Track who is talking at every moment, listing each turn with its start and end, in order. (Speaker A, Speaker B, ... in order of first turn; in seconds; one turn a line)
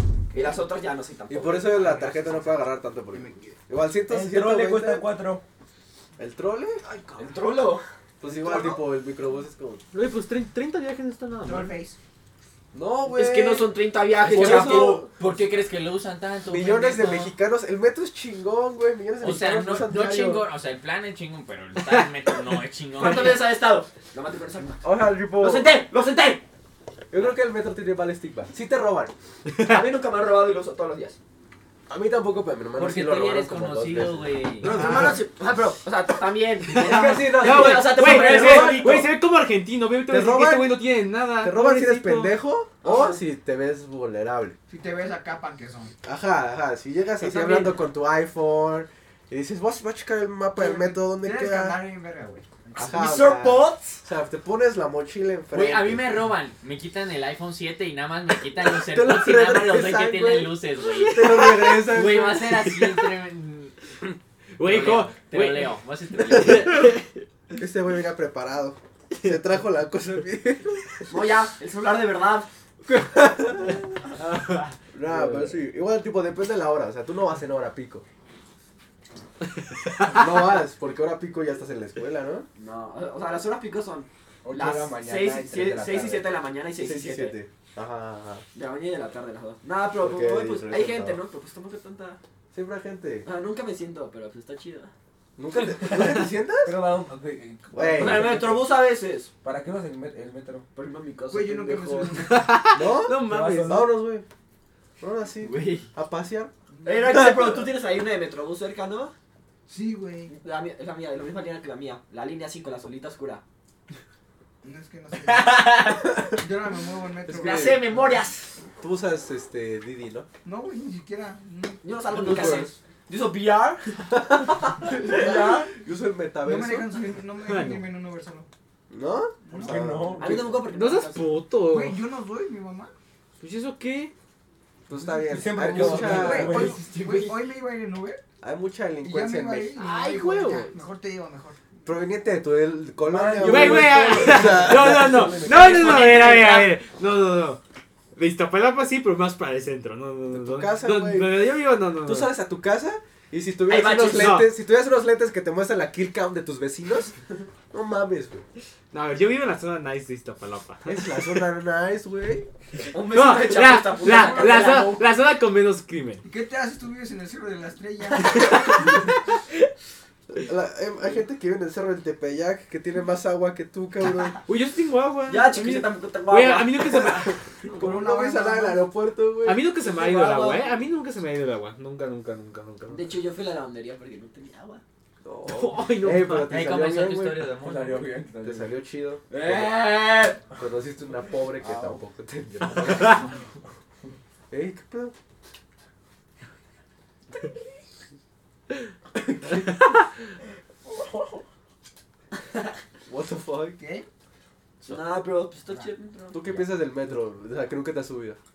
Speaker A: 0.3-2.4
Speaker B: 1.3-5.0
Speaker C: 3.1-3.5
Speaker D: 4.1-5.4
Speaker B: 6.2-6.8
Speaker A: 6.8-8.8
Speaker B: 8.2-9.8
Speaker E: 9.9-11.7
Speaker C: 11.4-12.0
Speaker B: 12.7-15.1
Speaker A: 13.1-15.1
Speaker F: 14.3-17.3
Speaker B: 16.4-20.4
Speaker F: 19.2-23.4
Speaker A: 22.9-26.4
Speaker B: 24.8-25.8
Speaker B: 27.1-29.1
Speaker A: 29.6-31.2
Speaker B: 31.9-35.1
Speaker F: 32.8-34.7
Speaker A: 34.6-39.1
Speaker E: 34.8-35.1
Speaker E: 36.7-42.4
Speaker B: 36.8-39.1
Speaker B: 40.1-40.9
Speaker B: 41.4-44.6
Speaker A: 42.8-43.2
Speaker C: 44.7-45.9
Speaker B: 46.0-51.8
Speaker A: 47.2-47.7
Speaker C: 50.5-52.8
Speaker B: 52.8-56.3
Speaker A: 52.8-54.0
Speaker F: 55.5-63.8
Speaker B: 58.6-62.5
Speaker E: 61.2-61.8
Speaker E: 62.4-63.2
Speaker E: 64.6-67.0
Speaker F: 64.6-66.9
Speaker B: 67.5-71.0
Speaker E: 69.1-69.4
Speaker A: 71.1-72.5
Speaker B: 73.2-73.7
Speaker E: 74.2-74.6
Speaker B: 74.9-78.0
Speaker A: 75.2-75.5
Speaker B: 80.0-82.5
Speaker A: 82.5-87.4
Speaker D: 84.4-86.3
Speaker B: 86.8-88.4
Speaker A: 88.5-92.2
Speaker B: 90.0-91.2
Speaker B: 92.5-93.3
Speaker A: 93.2-94.9
Speaker B: 95.4-96.8
Speaker D: 96.6-98.8
Speaker B: 97.7-98.4
Speaker A: 97.9-99.3
Speaker D: 99.4-100.7
Speaker A: 100.7-102.3
Speaker C: 101.3-102.6
Speaker E: 102.2-103.9
Speaker B: 102.7-104.2
Speaker D: 103.2-103.9
Speaker B: 105.0-106.5
Speaker A: 105.4-105.9
Speaker C: 106.7-107.2
Speaker A: 106.8-109.1
Speaker B: 107.1-107.5
Speaker C: 109.7-110.3
Speaker A: 110.3-113.4
Speaker C: 114.6-118.1
Speaker A: 115.3-116.1
Speaker A: 117.3-118.6
Speaker B: 118.8-120.3
Speaker C: 120.4-122.6
Speaker A: 121.8-124.0
Speaker B: 122.1-122.7
Speaker A: 124.6-125.7
Speaker C: 125.0-125.4
Speaker B: 125.8-126.9
Speaker C: 126.4-128.5
Speaker E: 127.4-127.9
Speaker B: 128.9-130.4
Speaker C: 129.4-130.1
Speaker D: 129.5-130.5
Speaker A: 130.2-131.3
Speaker E: 130.6-132.0
Speaker C: 131.7-132.9
Speaker E: 133.4-134.1
Speaker B: 134.9-136.7
Speaker D: 135.2-137.2
Speaker C: 135.7-138.2
Speaker A: 135.8-136.9
Speaker B: 138.4-139.8
Speaker C: 139.0-141.6
Speaker A: 139.8-140.7
Speaker E: 139.8-140.7
Speaker B: 141.8-146.7
Speaker D: 143.1-143.6
Speaker E: 143.4-147.6
Speaker A: 143.5-146.6
Speaker E: 148.1-152.4
Speaker B: 150.3-157.1
Speaker A: 153.7-154.4
Speaker E: 154.1-154.5
Speaker B: 157.7-158.4
Speaker E: 158.9-161.4
Speaker B: 160.8-162.5
Speaker A: 162.9-165.1
Speaker E: 163.0-166.2
Speaker C: 164.2-164.6
Speaker C: 166.2-169.0
Speaker B: 170.3-174.4
Speaker E: 174.4-177.4
Speaker A: 175.2-177.2
Speaker C: 177.7-178.9
Speaker B: 177.8-179.7
Speaker E: 179.4-183.2
Speaker A: 179.8-180.8
Speaker A: 182.9-184.8
Speaker B: 185.2-187.5
Speaker E: 185.4-186.6
Speaker F: 186.5-188.1
Speaker D: 187.5-188.8
Speaker B: 188.4-189.8
Speaker A: 189.3-190.5
Speaker B: 190.6-193.2
Speaker D: 191.6-192.0
Speaker B: 194.5-195.1
Speaker B: 203.1-203.8
Speaker C: 203.6-204.1
Speaker A: 204.8-206.7
Speaker B: 206.3-208.4